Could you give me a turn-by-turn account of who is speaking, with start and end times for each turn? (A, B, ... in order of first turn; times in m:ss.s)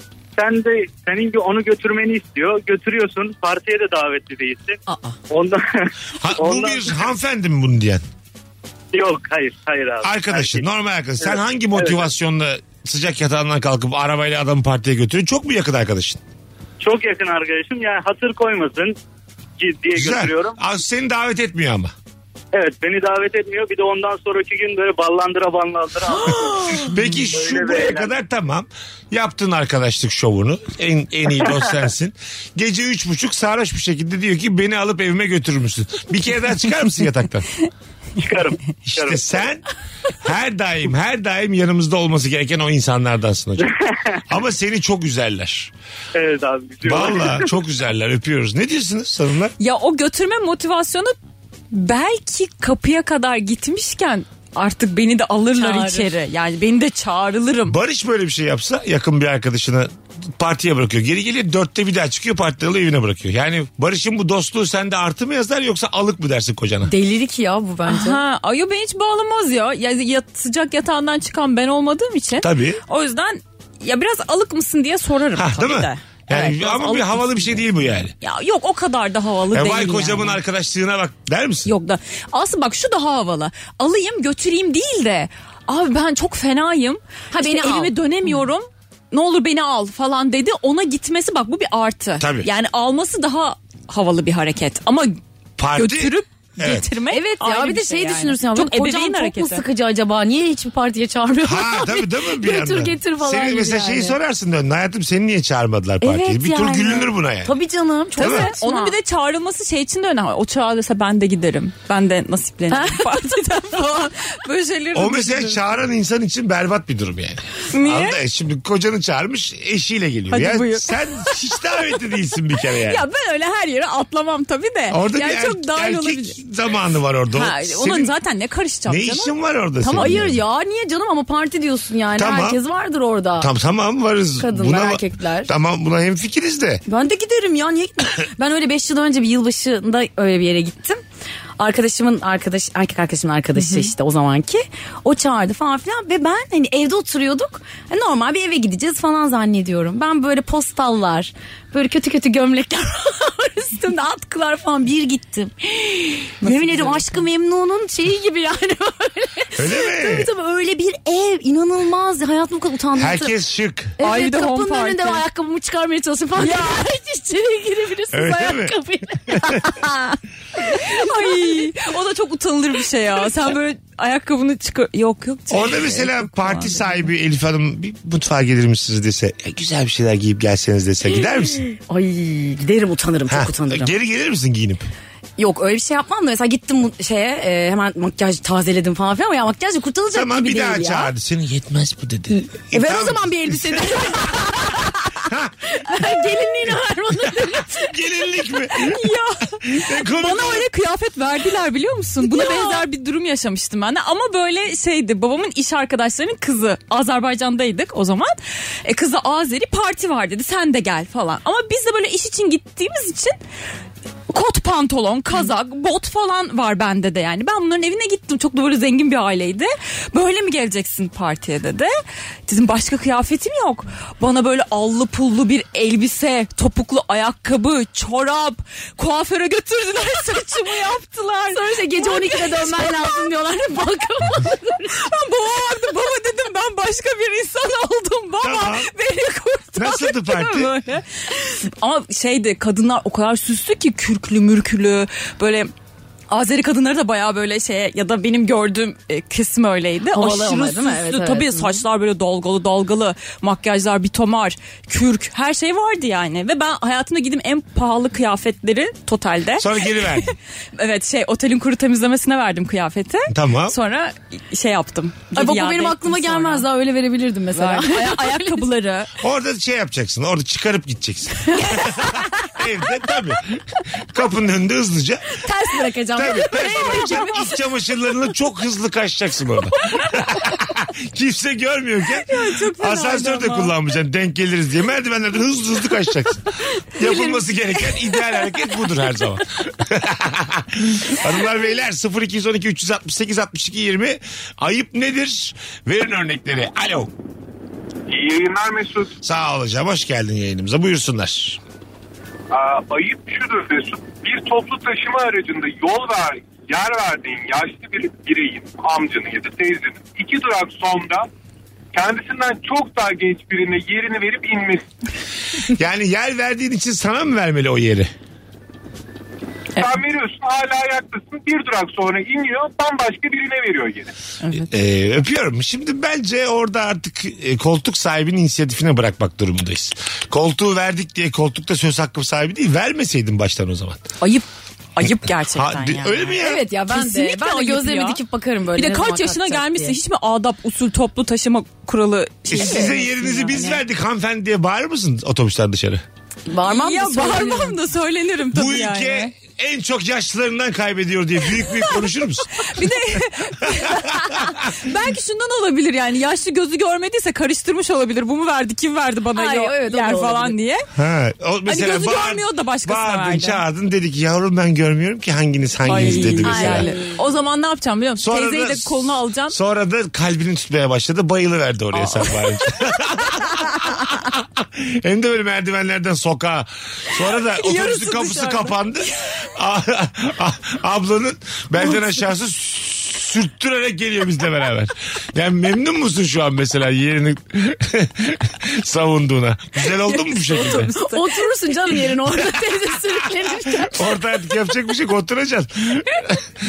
0:00.4-0:04.8 A
0:04.9-0:05.2 B
0:05.3-0:07.1 A
0:06.2-0:08.0 C
0:08.9-0:10.6 A
0:10.0-0:16.2 C
0:11.2-0:12.1 A
0:16.8-0:19.0 A
0:19.6-0:20.6 A
0:20.0-0:21.9 C
0:22.5-0:26.8 A
0:26.3-0:26.8 B
0:26.8-0:37.5 C
0:27.3-0:28.1 A
0:38.2-0:39.5 A
0:38.8-0:39.6 C
0:40.2-0:43.8 C
0:43.6-0:44.2 A
0:44.3-0:45.7 C
0:46.2-0:47.5 A
0:46.8-0:49.5 C
0:49.6-0:51.2 D
0:51.7-0:57.8 D
0:55.6-0:56.1 B
0:57.7-1:06.9 C
1:06.9-1:08.2 B
1:07.9-1:17.6 D
1:12.4-1:12.8 C
1:15.4-1:18.1 C
1:18.2-1:20.4 D
1:19.5-1:21.7 C
1:21.6-1:35.2 D
1:27.3-1:28.0 B
1:32.2-1:32.5 C
1:35.6-1:36.9 C
1:35.7-1:39.6 D
1:37.1-1:44.2 B
1:41.4-1:47.5 C
1:46.0-1:49.0 B
1:48.2-1:55.6 D
1:48.2-1:48.5 C
1:52.7-1:53.2 B
1:54.9-2:03.0 C
1:57.7-1:58.2 D
2:00.3-2:01.8 D
2:02.8-2:06.4 D
2:04.9-2:08.1 C
2:07.3-2:10.2 D
2:08.9-2:10.4 C
2:09.9-2:13.5 B
2:12.2-2:12.6 C
2:13.4-2:16.8 C
2:14.4-2:15.5 B
2:16.9-2:21.0 B
2:21.6-2:43.3 B
2:23.6-2:23.9 D
2:36.5-2:37.0 D
2:39.6-2:40.3 C
2:43.0-2:44.0 C
2:44.0-2:51.6 B
2:44.0-2:45.2 D
2:46.4-2:46.8 D
2:48.1-2:49.6 C
2:50.7-2:57.1 D
2:55.5-3:01.6 C
3:01.8-3:03.9 B
3:03.3-3:04.9 C
3:05.4-3:11.1 B
3:10.1-3:14.4 C
3:12.4-3:15.3 B
3:15.2-3:15.5 C
3:15.8-3:17.9 B
3:17.3-3:19.1 C
3:18.8-3:33.4 D
3:19.6-3:20.7 C
3:22.2-3:22.8 B
3:34.3-3:41.9 D
3:42.5-3:53.1 D
3:51.5-3:55.0 B
3:54.9-4:05.7 D
3:58.4-3:58.9 C
3:59.8-4:00.7 C
4:06.3-4:26.7 D
4:10.1-4:11.8 B
4:19.6-4:20.3 C
4:23.3-4:23.8 C
4:25.4-4:28.7 B
4:27.5-4:29.1 D
4:29.2-4:35.4 C
4:31.6-4:32.3 B
4:35.4-4:37.5 B
4:36.2-4:57.1 C
4:36.3-4:37.3 D
4:42.3-4:43.7 D
4:58.1-4:59.2 E
4:59.2-5:01.6 C
5:02.5-5:11.3 E
5:11.9-5:14.9 E
5:15.7-5:18.1 C
5:19.8-5:24.1 E
5:24.4-5:24.7 D
5:24.6-5:34.1 C
5:34.2-5:36.4 D
5:35.5-5:36.7 C
5:36.4-5:40.0 B
5:36.9-5:38.2 D
5:38.8-5:43.8 D
5:42.5-5:46.0 C
5:42.6-5:42.9 B
5:46.5-5:47.8 B
5:46.7-5:49.3 D
5:48.5-5:52.6 C
5:51.7-6:00.9 D
5:53.8-5:54.5 C
5:59.3-6:00.5 B
6:01.0-6:06.9 C
6:01.7-6:03.6 D
6:05.8-6:09.6 D
6:05.9-6:07.2 B
6:08.2-6:30.9 C
6:11.9-6:12.5 D
6:17.5-6:18.8 D
6:29.8-6:31.4 D
6:30.6-6:34.1 B
6:33.9-6:36.6 C